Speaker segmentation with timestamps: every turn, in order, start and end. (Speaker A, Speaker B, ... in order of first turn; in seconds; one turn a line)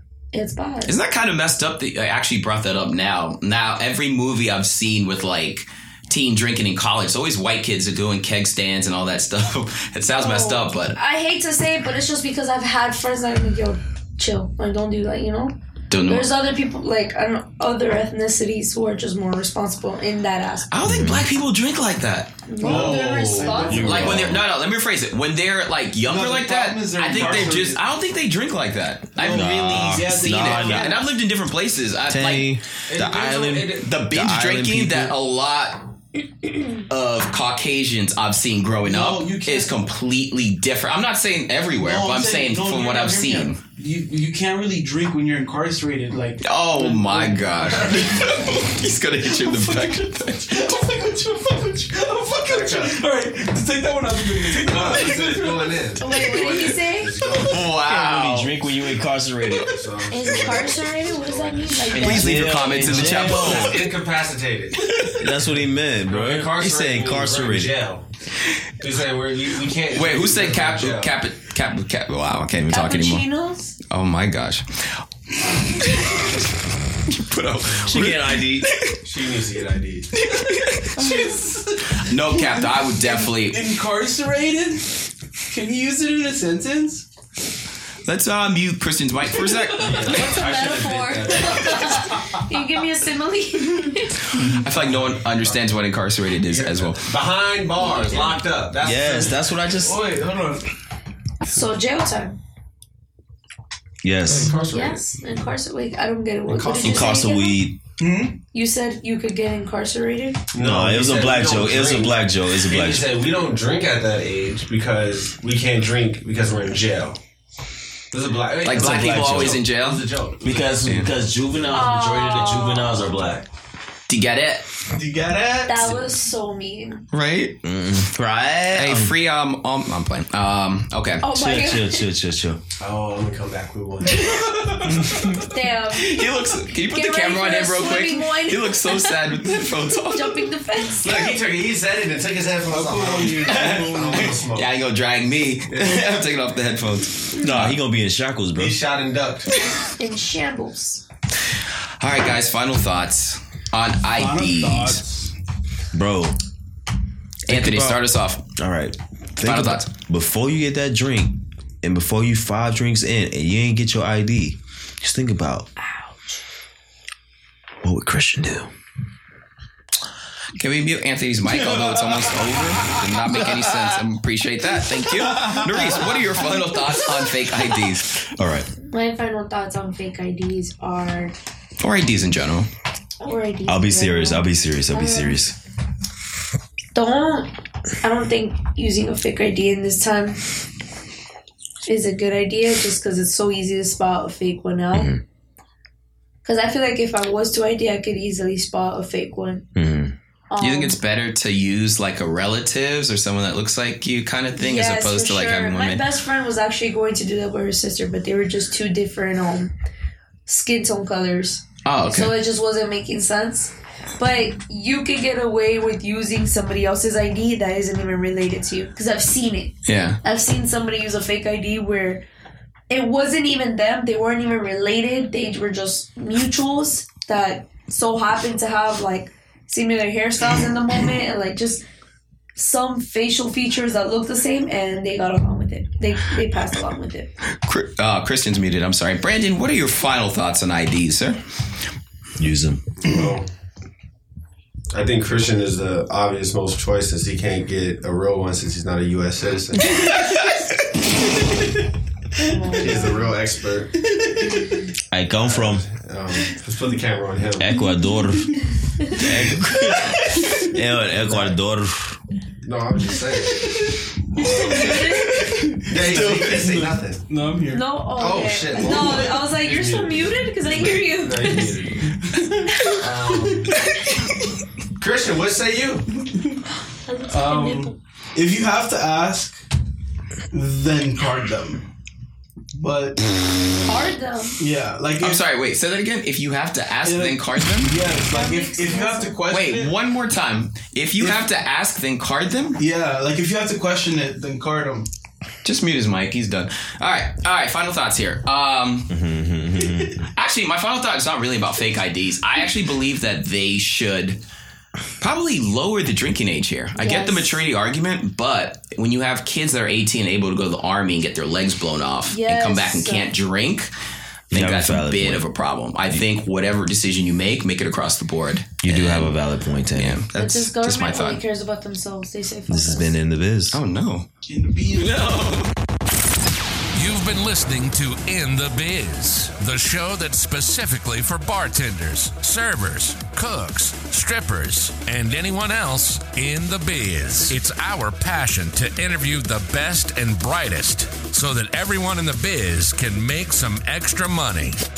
Speaker A: 0.3-1.0
Speaker B: 0.9-11.0
Speaker A: 10.2-15.6
Speaker B: 15.9-16.3
Speaker A: 16.1-20.7
Speaker B: 20.7-22.4
Speaker C: 20.8-21.3
Speaker A: 22.5-24.3
Speaker D: 22.6-24.4
Speaker E: 22.6-23.8
Speaker C: 23.7-24.4
Speaker B: 23.8-35.8
Speaker D: 26.0-27.8
Speaker C: 27.2-27.5
Speaker D: 29.2-31.0
Speaker C: 29.3-31.0
Speaker C: 32.1-35.1
Speaker E: 32.9-33.8
Speaker B: 36.7-43.6
Speaker D: 38.9-39.8
Speaker D: 41.8-48.6
Speaker B: 46.4-50.8
Speaker D: 49.3-56.8
Speaker E: 52.4-53.0
Speaker E: 54.6-57.7
Speaker A: 56.0-57.2
Speaker B: 57.4-58.7
Speaker C: 57.6-59.8
Speaker E: 59.6-62.2
Speaker A: 60.1-63.1
Speaker B: 61.9-63.9
Speaker C: 61.9-63.9
Speaker E: 62.9-65.0
Speaker D: 63.0-63.5
Speaker C: 65.2-67.8
Speaker E: 66.1-68.0
Speaker E: 68.8-71.2
Speaker B: 69.9-73.3
Speaker A: 72.7-73.8
Speaker B: 73.9-75.0
Speaker B: 75.6-76.5
Speaker B: 77.1-79.0
Speaker C: 77.8-78.7
Speaker E: 79.0-80.1
Speaker B: 80.2-81.3
Speaker D: 81.0-87.0
Speaker B: 82.0-83.7
Speaker B: 88.0-90.4
Speaker D: 89.4-89.7
Speaker E: 89.7-92.2
Speaker A: 90.0-94.3
Speaker B: 94.3-97.1
Speaker E: 94.6-95.8
Speaker E: 96.4-99.4
Speaker A: 97.8-98.4
Speaker C: 98.8-100.0
Speaker D: 99.7-100.7
Speaker A: 101.5-102.3
Speaker C: 104.0-104.5
Speaker E: 104.3-105.0
Speaker A: 104.7-107.7
Speaker C: 106.5-107.8
Speaker E: 106.6-107.2
Speaker D: 108.0-108.4
Speaker A: 108.5-110.4
Speaker E: 110.5-117.2
Speaker C: 110.6-113.2
Speaker E: 118.1-120.8
Speaker B: 118.6-120.0
Speaker C: 118.7-119.6
Speaker C: 120.4-123.5
Speaker B: 120.8-121.1
Speaker A: 121.7-123.3
Speaker B: 124.1-124.7
Speaker D: 124.9-126.0
Speaker A: 125.7-127.0
Speaker B: 127.1-127.6
Speaker C: 127.6-129.2
Speaker B: 128.7-131.2
Speaker A: 131.2-132.1
Speaker C: 131.3-132.6
Speaker E: 132.8-134.5
Speaker D: 134.5-134.7
Speaker C: 135.0-135.3
Speaker A: 135.2-141.3
Speaker B: 136.0-140.5
Speaker E: 141.0-144.7
Speaker D: 142.7-144.4
Speaker B: 143.5-147.8
Speaker C: 147.4-148.8
Speaker E: 148.6-149.5
Speaker A: 150.0-151.0
Speaker B: 152.0-155.0
Speaker D: 154.1-155.3
Speaker C: 155.9-156.4
Speaker B: 157.5-158.4
Speaker C: 157.5-158.0
Speaker C: 158.6-165.7
Speaker B: 159.4-159.9
Speaker A: 165.8-166.4
Speaker C: 167.8-168.7
Speaker B: 170.6-178.2
Speaker C: 178.2-178.7
Speaker A: 178.9-181.3
Speaker B: 181.8-182.7
Speaker A: 183.2-185.4
Speaker C: 183.7-185.6
Speaker A: 186.9-190.4
Speaker A: 191.8-195.1
Speaker C: 194.9-195.2
Speaker A: 196.4-199.7
Speaker C: 199.8-200.2
Speaker A: 200.5-201.0
Speaker B: 200.6-206.0
Speaker A: 204.6-209.7
Speaker A: 210.5-222.2
Speaker B: 211.8-212.4
Speaker B: 219.9-220.2
Speaker A: 222.9-231.8
Speaker A: 232.6-237.3
Speaker B: 237.6-241.4
Speaker C: 242.4-242.8
Speaker E: 243.0-243.5
Speaker E: 244.9-250.2
Speaker A: 249.8-250.4
Speaker A: 252.4-253.2
Speaker D: 252.6-253.2
Speaker E: 252.8-254.0
Speaker D: 254.0-254.8
Speaker C: 255.1-255.8
Speaker E: 255.4-257.7
Speaker C: 257.6-262.2
Speaker D: 260.4-260.7
Speaker E: 262.6-263.7
Speaker D: 263.6-268.0
Speaker E: 264.3-265.0
Speaker A: 264.4-265.6
Speaker E: 265.8-267.2
Speaker A: 267.7-271.8
Speaker E: 268.1-272.1
Speaker D: 272.1-273.9
Speaker E: 272.8-273.9
Speaker E: 274.9-276.1
Speaker A: 276.9-278.0
Speaker D: 277.3-279.6
Speaker D: 280.5-281.9
Speaker D: 282.8-283.2
Speaker A: 283.9-284.6
Speaker D: 284.6-285.4
Speaker B: 285.2-287.9
Speaker D: 287.0-289.9
Speaker A: 288.3-289.4
Speaker B: 289.5-292.8
Speaker D: 291.2-291.5
Speaker D: 292.8-295.1
Speaker B: 295.6-299.1
Speaker C: 299.1-300.3
Speaker B: 300.4-304.4
Speaker B: 305.2-313.9
Speaker A: 307.0-307.6
Speaker A: 312.3-313.3
Speaker C: 314.5-315.5
Speaker B: 314.5-319.4
Speaker C: 318.8-320.2
Speaker B: 320.0-321.4
Speaker A: 320.4-323.2
Speaker C: 322.7-323.8
Speaker B: 323.7-324.3
Speaker D: 324.5-325.5
Speaker B: 324.9-325.7
Speaker F: 326.9-344.8